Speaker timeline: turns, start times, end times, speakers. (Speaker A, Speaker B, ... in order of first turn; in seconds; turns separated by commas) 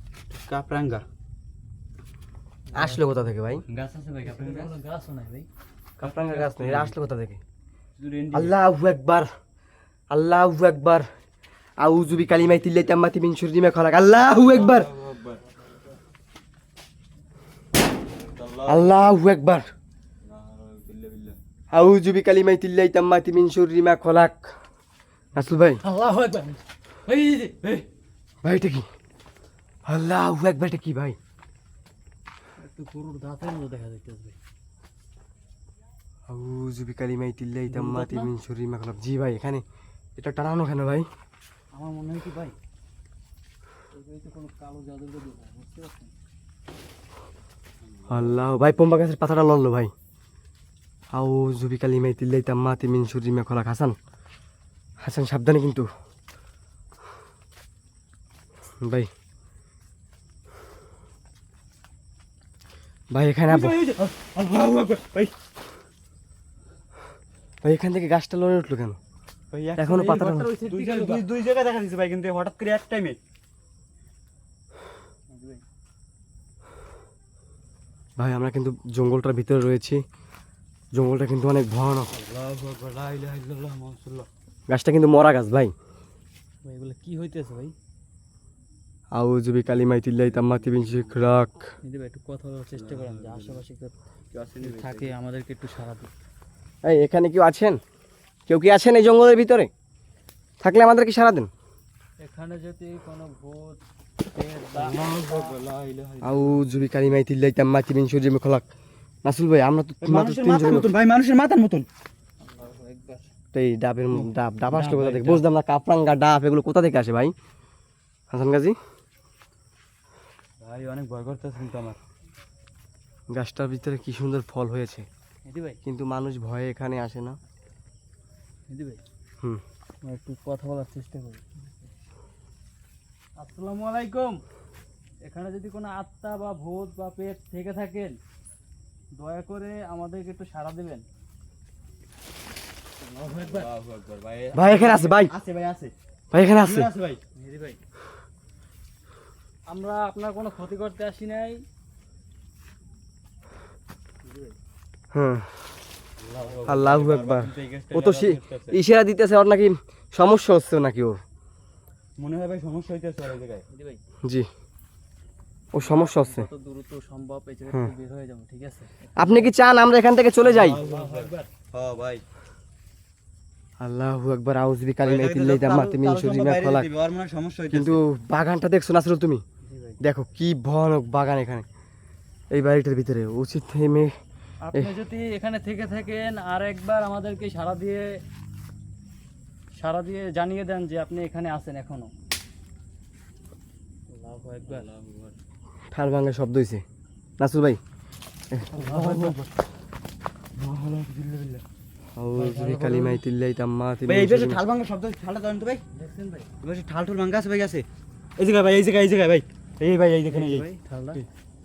Speaker A: 0.3-1.1, Speaker B: 2.7-3.0, Speaker C: 2.7-3.6, Speaker A: 3.6-4.8, Speaker B: 4.2-5.5, Speaker C: 6.0-7.4, Speaker A: 6.0-7.0, Speaker A: 8.0-8.6, Speaker C: 8.3-9.3, Speaker C: 10.1-11.1, Speaker C: 11.8-14.9, Speaker A: 14.3-15.4, Speaker A: 18.1-19.0, Speaker C: 18.7-19.7, Speaker A: 20.2-21.4, Speaker C: 21.7-24.6, Speaker C: 25.3-25.8, Speaker B: 25.8-27.8, Speaker C: 28.4-28.9, Speaker C: 29.9-31.2, Speaker B: 32.6-34.4, Speaker C: 36.3-39.6, Speaker B: 37.7-38.3, Speaker C: 40.2-41.1, Speaker B: 41.8-42.5, Speaker B: 43.9-46.1, Speaker A: 47.9-48.6, Speaker C: 48.1-49.9, Speaker C: 51.1-54.0, Speaker C: 55.0-55.9, Speaker C: 58.8-59.1, Speaker C: 63.1-63.9, Speaker B: 63.5-64.0, Speaker A: 63.8-65.3, Speaker C: 67.6-69.0, Speaker A: 69.5-73.2, Speaker C: 69.8-70.5, Speaker B: 69.9-71.3, Speaker B: 75.3-75.6, Speaker C: 78.2-80.0, Speaker C: 80.9-82.1, Speaker A: 82.1-84.3, Speaker C: 84.7-85.7, Speaker B: 86.7-87.8, Speaker C: 89.1-91.7, Speaker A: 89.8-91.4, Speaker B: 91.8-94.0, Speaker A: 92.7-93.6, Speaker A: 94.3-95.1, Speaker B: 94.6-96.1, Speaker C: 96.8-97.8, Speaker C: 98.5-99.7, Speaker C: 100.6-101.5, Speaker B: 102.2-105.5, Speaker A: 104.8-107.0, Speaker C: 106.2-108.7, Speaker C: 109.2-110.9, Speaker A: 110.0-111.9, Speaker B: 112.4-113.3, Speaker C: 113.5-117.3, Speaker A: 114.1-115.3, Speaker B: 114.7-115.4, Speaker C: 118.3-118.8, Speaker A: 120.6-122.0, Speaker C: 123.3-125.1, Speaker B: 125.5-125.8, Speaker C: 125.8-127.4, Speaker B: 128.7-129.0, Speaker B: 130.0-131.9, Speaker B: 133.4-134.4, Speaker B: 135.2-138.2, Speaker B: 139.2-141.0, Speaker B: 143.0-143.7, Speaker A: 143.4-145.9, Speaker C: 144.5-145.3, Speaker C: 146.3-146.9, Speaker A: 146.6-147.2, Speaker B: 147.3-147.8, Speaker B: 149.7-151.6, Speaker B: 154.2-154.6, Speaker C: 155.1-155.5, Speaker A: 156.2-158.8, Speaker C: 156.7-161.2, Speaker A: 162.2-163.6, Speaker B: 163.7-164.0, Speaker C: 165.7-166.5, Speaker B: 165.8-169.5, Speaker C: 169.2-170.8, Speaker A: 170.4-172.2, Speaker B: 170.5-171.5, Speaker C: 173.8-176.9, Speaker A: 175.0-178.0, Speaker C: 177.7-179.4, Speaker B: 179.6-180.0, Speaker C: 180.0-181.7, Speaker C: 182.5-184.2, Speaker B: 184.7-188.2, Speaker B: 189.8-192.1, Speaker B: 194.1-194.9, Speaker A: 194.7-195.3, Speaker C: 195.9-196.8, Speaker C: 197.4-197.8, Speaker A: 198.7-199.5, Speaker B: 198.8-199.4, Speaker A: 200.6-201.6, Speaker C: 202.2-204.6, Speaker A: 202.3-203.2, Speaker A: 204.1-205.8, Speaker B: 205.9-206.5, Speaker A: 206.6-207.9, Speaker A: 208.4-211.2, Speaker B: 210.3-211.2